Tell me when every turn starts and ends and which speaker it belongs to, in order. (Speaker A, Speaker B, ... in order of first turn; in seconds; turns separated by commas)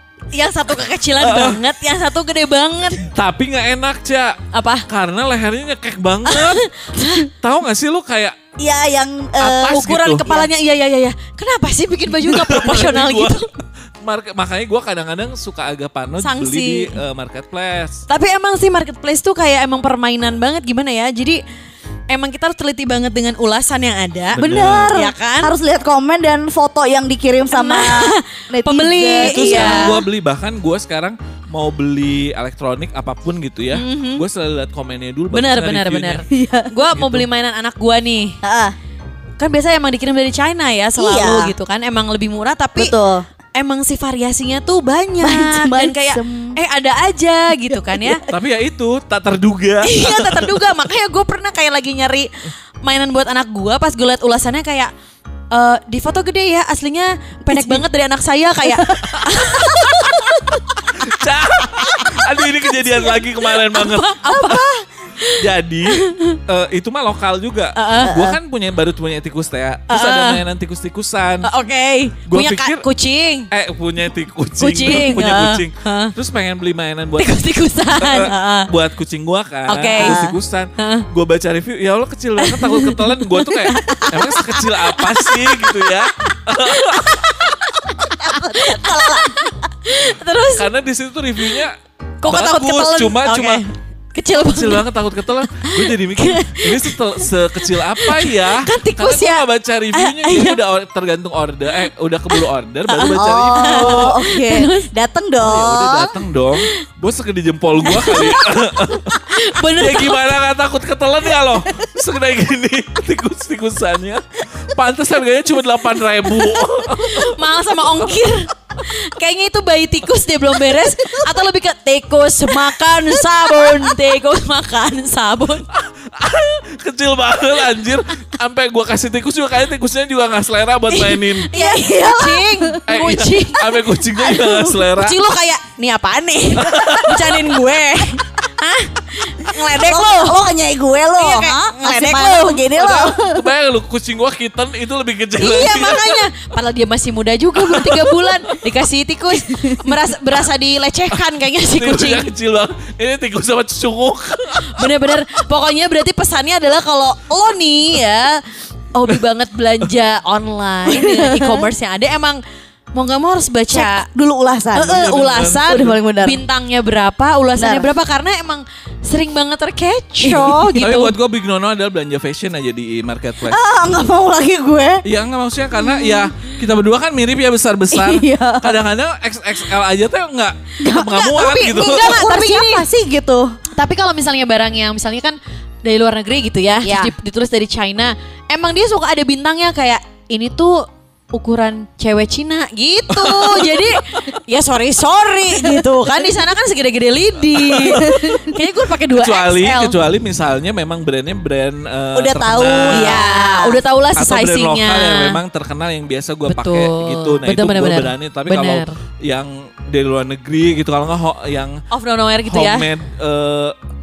Speaker A: 0.3-3.1, Speaker B: 1.2-1.6, Speaker B: 3.0-6.6, Speaker A: 4.5-4.9, Speaker A: 6.3-7.3, Speaker B: 7.3-8.4, Speaker C: 8.6-10.5, Speaker B: 9.4-10.2, Speaker A: 9.7-13.5, Speaker B: 12.2-13.4, Speaker B: 14.0-18.0, Speaker A: 16.2-16.9, Speaker A: 18.1-21.4, Speaker A: 22.1-25.5, Speaker B: 24.4-24.9, Speaker C: 24.4-30.0, Speaker A: 27.5-30.0, Speaker B: 29.2-36.2, Speaker A: 33.7-34.2, Speaker A: 35.3-38.4, Speaker C: 36.3-36.7, Speaker B: 36.9-37.3, Speaker C: 38.4-38.8, Speaker A: 39.4-42.9, Speaker C: 41.0-41.5, Speaker C: 42.8-43.2, Speaker A: 43.6-48.2, Speaker C: 45.2-46.5, Speaker C: 47.9-48.2, Speaker B: 48.3-50.5, Speaker A: 49.8-52.3, Speaker A: 52.8-54.9, Speaker A: 55.5-60.0, Speaker C: 57.5-57.8, Speaker C: 58.7-60.5, Speaker B: 61.0-64.6, Speaker C: 61.8-62.1, Speaker A: 63.7-64.7, Speaker C: 64.3-64.8, Speaker B: 65.3-71.5, Speaker A: 65.9-66.4, Speaker A: 67.8-68.2, Speaker C: 68.1-68.4, Speaker A: 69.9-70.4, Speaker A: 71.4-73.5, Speaker B: 72.3-72.8, Speaker B: 73.5-87.2, Speaker A: 74.6-76.1, Speaker A: 77.2-78.7, Speaker A: 79.7-80.2, Speaker C: 80.0-80.3, Speaker A: 80.8-81.1, Speaker A: 82.4-85.9, Speaker A: 86.5-90.7, Speaker C: 88.0-89.5, Speaker B: 90.5-91.8, Speaker A: 92.2-94.8, Speaker B: 92.3-93.6, Speaker B: 94.5-104.2, Speaker A: 95.5-99.4, Speaker A: 100.0-100.6, Speaker A: 102.3-104.9, Speaker C: 103.2-106.1, Speaker B: 105.4-109.2, Speaker A: 107.9-108.4, Speaker A: 109.3-110.2, Speaker B: 109.8-117.3, Speaker A: 117.0-125.7, Speaker C: 123.2-123.9, Speaker B: 125.8-131.5, Speaker A: 130.9-133.8, Speaker C: 131.5-132.8, Speaker B: 132.9-135.2, Speaker C: 134.2-134.8, Speaker A: 135.0-140.4, Speaker B: 136.6-137.4, Speaker C: 139.7-143.4, Speaker A: 141.2-142.7, Speaker B: 142.8-146.2, Speaker A: 145.4-152.3, Speaker B: 147.6-148.3, Speaker B: 151.8-155.2, Speaker A: 154.7-158.4, Speaker A: 158.9-162.4, Speaker C: 160.9-161.6, Speaker A: 162.9-164.1, Speaker C: 163.7-165.2, Speaker A: 164.8-171.1, Speaker B: 165.0-165.8, Speaker C: 165.7-166.4, Speaker C: 167.6-167.9, Speaker C: 170.2-170.9, Speaker B: 170.8-173.6, Speaker C: 173.5-175.0, Speaker B: 175.1-182.2, Speaker C: 175.8-176.2, Speaker C: 177.9-178.8, Speaker C: 180.8-183.6, Speaker A: 181.6-182.9, Speaker A: 183.7-200.0, Speaker C: 186.8-187.1, Speaker B: 193.2-194.4, Speaker B: 197.6-198.6, Speaker C: 198.0-198.3, Speaker B: 199.1-203.2, Speaker C: 202.2-203.8, Speaker A: 202.9-205.4, Speaker B: 204.2-211.8, Speaker A: 206.5-208.9, Speaker A: 211.9-212.9, Speaker B: 212.5-213.8